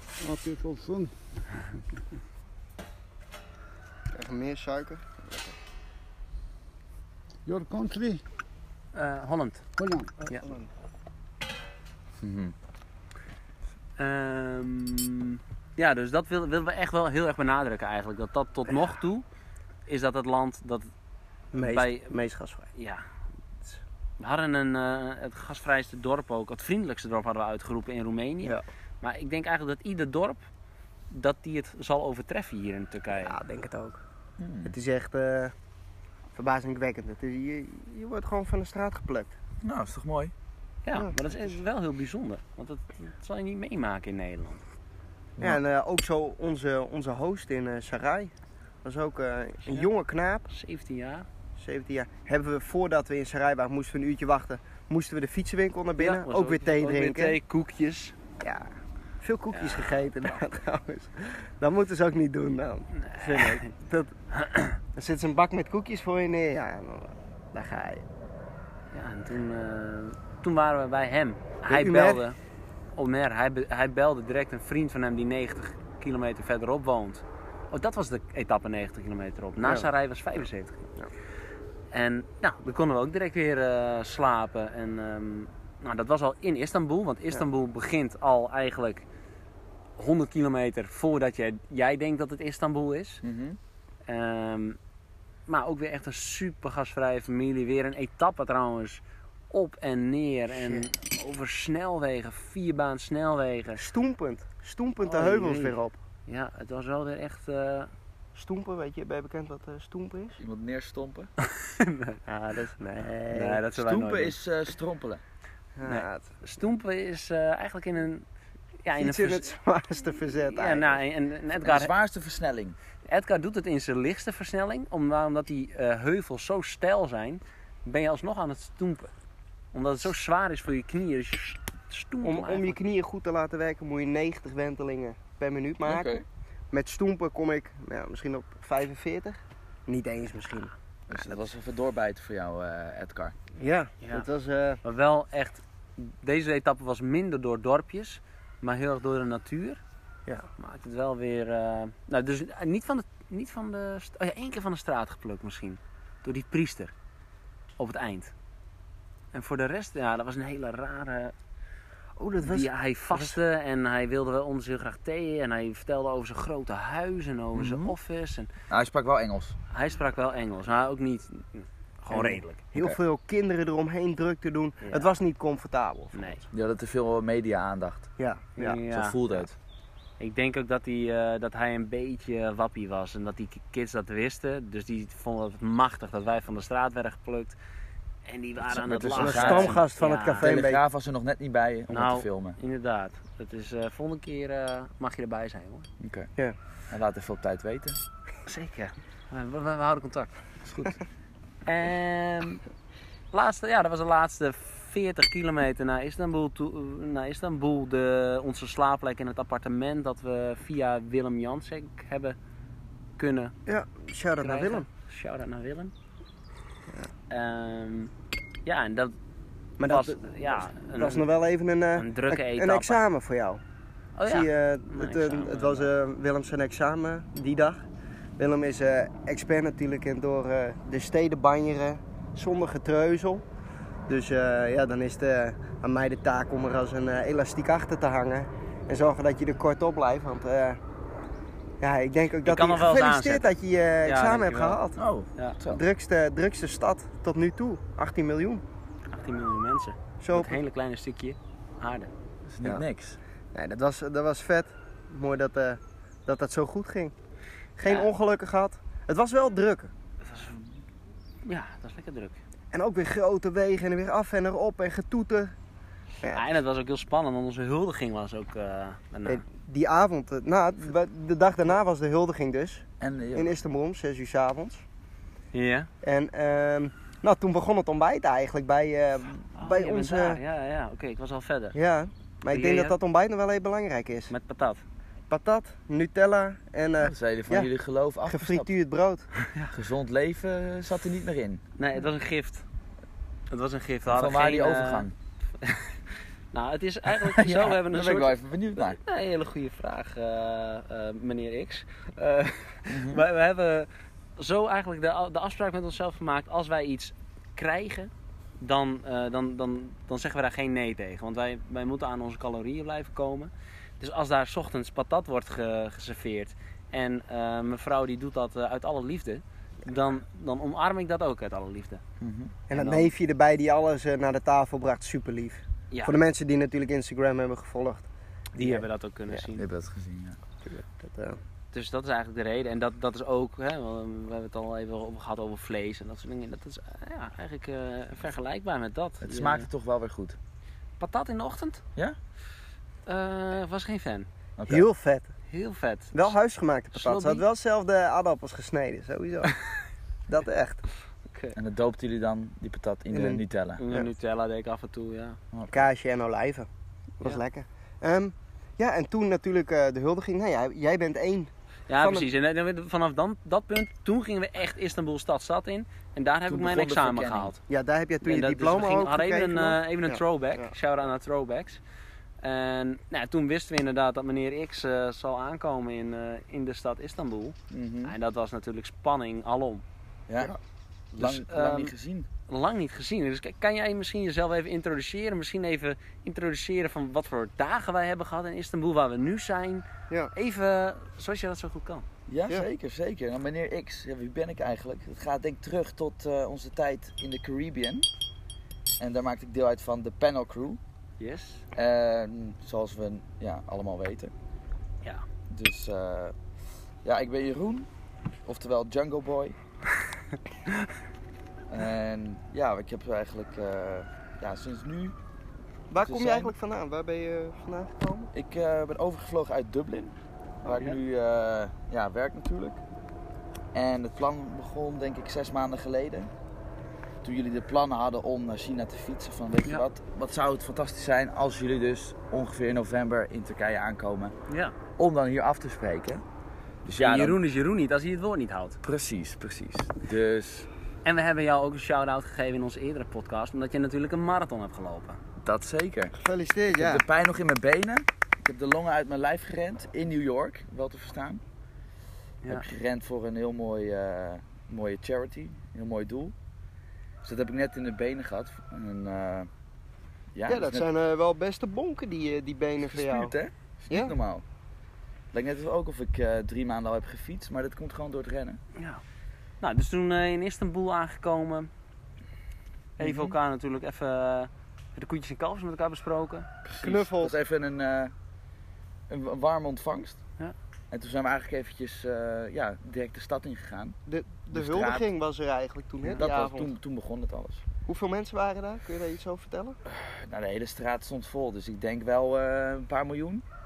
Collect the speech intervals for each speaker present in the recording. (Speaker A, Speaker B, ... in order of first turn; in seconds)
Speaker A: 0.2-1.1, 7.5-8.2, 9.8-10.1
Speaker B: 4.1-5.5, 10.3-10.7, 21.5-22.7, 33.1-34.0, 34.6-35.5, 36.4-39.3, 45.4-48.3, 48.8-50.5, 51.6-57.4, 58.4-58.7, 59.2-64.1, 65.0-68.0, 71.7-72.2, 79.6-79.9, 100.5-100.9, 103.8-106.0, 108.3-110.4, 112.3-113.6, 115.8-116.3, 119.0-121.0, 132.2-136.2, 136.7-140.7, 143.6-144.8, 162.2-163.4, 172.1-176.4, 178.2-178.8, 189.1-190.8, 213.7-214.9, 219.8-223.6, 224.3-227.8, 228.4-233.4, 234.1-240.8, 241.8-245.0, 245.7-248.6, 250.2-250.6, 253.5-257.1, 257.8-259.9, 262.7-265.5, 269.3-274.8, 276.0-280.4, 281.8-284.3, 285.3-287.7, 288.3-289.3, 322.7-328.1, 328.6-329.4, 330.6-331.4, 344.7-345.3, 346.1-349.5, 350.3-350.8, 353.1-354.1, 355.7-356.7, 357.2-362.3, 367.7-370.7, 415.9-418.3, 446.2-447.0, 460.5-463.3, 463.9-464.1, 476.8-477.3, 484.1-486.7, 487.9-489.8
Speaker C: 8.9-9.7, 14.0-19.2, 19.9-20.9, 21.6-22.2, 22.8-23.1, 24.2-30.4, 31.1-33.4, 40.9-44.6, 50.5-51.3, 56.0-58.1, 59.5-60.1, 63.0-63.7, 64.3-64.8, 68.9-72.4, 73.0-80.9, 81.9-89.1, 90.0-93.2, 94.1-94.8, 95.5-103.8, 105.0-105.8, 106.3-107.9, 111.4-114.4, 115.8-118.3, 118.8-119.5, 120.5-121.9, 123.1-129.1, 129.7-132.8, 144.8-149.8, 150.6-156.9, 157.8-158.3, 159.3-161.3, 162.4-168.5, 169.7-172.7, 174.8-175.1, 176.1-176.4, 178.6-179.2, 180.2-187.6, 188.3-190.5, 191.9-195.9, 198.5-200.4, 201.7-202.6, 203.3-212.4, 213.2-213.6, 214.4-215.9, 217.3-218.1, 218.7-219.2, 219.8-221.2, 222.0-223.0, 224.2-225.9, 242.4-243.5, 244.1-244.8, 249.1-252.1, 260.2-260.7, 261.4-262.4, 266.3-269.4, 275.5-275.9, 279.6-281.8, 282.5-283.0, 284.3-284.8, 291.8-292.6, 293.5-295.1, 295.6-296.0, 296.5-322.0, 322.7-323.1, 328.6-329.6, 331.7-339.7, 341.0-341.8, 343.1-344.3, 345.5-346.3, 346.9-347.4, 351.3-351.6, 353.8-355.4, 361.9-367.6, 368.2-371.8, 372.4-379.8, 381.1-381.9, 382.5-392.1, 401.2-401.7, 434.5-434.8, 437.0-438.8, 441.1-445.2, 452.4-452.7, 468.8-469.0, 469.6-471.7, 473.0-476.5
Speaker D: 12.2-12.6, 34.4-34.8, 39.6-40.3, 93.2-93.6, 110.4-111.3, 113.7-115.2, 121.6-122.8, 135.8-136.2, 141.1-143.3, 167.6-167.9, 168.7-169.6, 176.5-178.1, 178.9-179.6, 188.7-189.8, 190.4-192.6, 196.0-196.3, 196.9-198.0, 200.6-200.9, 245.0-245.8, 252.5-253.2, 273.0-273.5, 287.0-288.7, 289.7-291.6, 294.1-295.1, 297.1-299.0, 302.9-303.2, 322.2-322.6, 329.6-330.4, 339.2-340.4, 344.6-344.9, 351.6-353.8, 355.5-355.9, 366.5-367.6, 377.7-378.1, 380.3-380.5, 381.2-382.3, 392.3-398.1, 399.0-400.8, 401.7-404.3, 405.5-406.4, 407.0-407.9, 408.4-409.6, 411.7-415.1, 416.0-416.5, 418.3-422.8, 423.7-426.3, 427.2-434.4, 435.0-436.2, 436.9-437.4, 438.8-440.7, 445.4-446.2, 446.7-451.4, 452.5-456.3, 457.2-459.5, 460.3-460.9, 462.8-464.4, 465.3-468.6, 473.0-473.4, 476.6-478.1, 479.1-480.2, 480.9-484.0, 484.5-485.1, 486.2-487.6, 489.9-493.4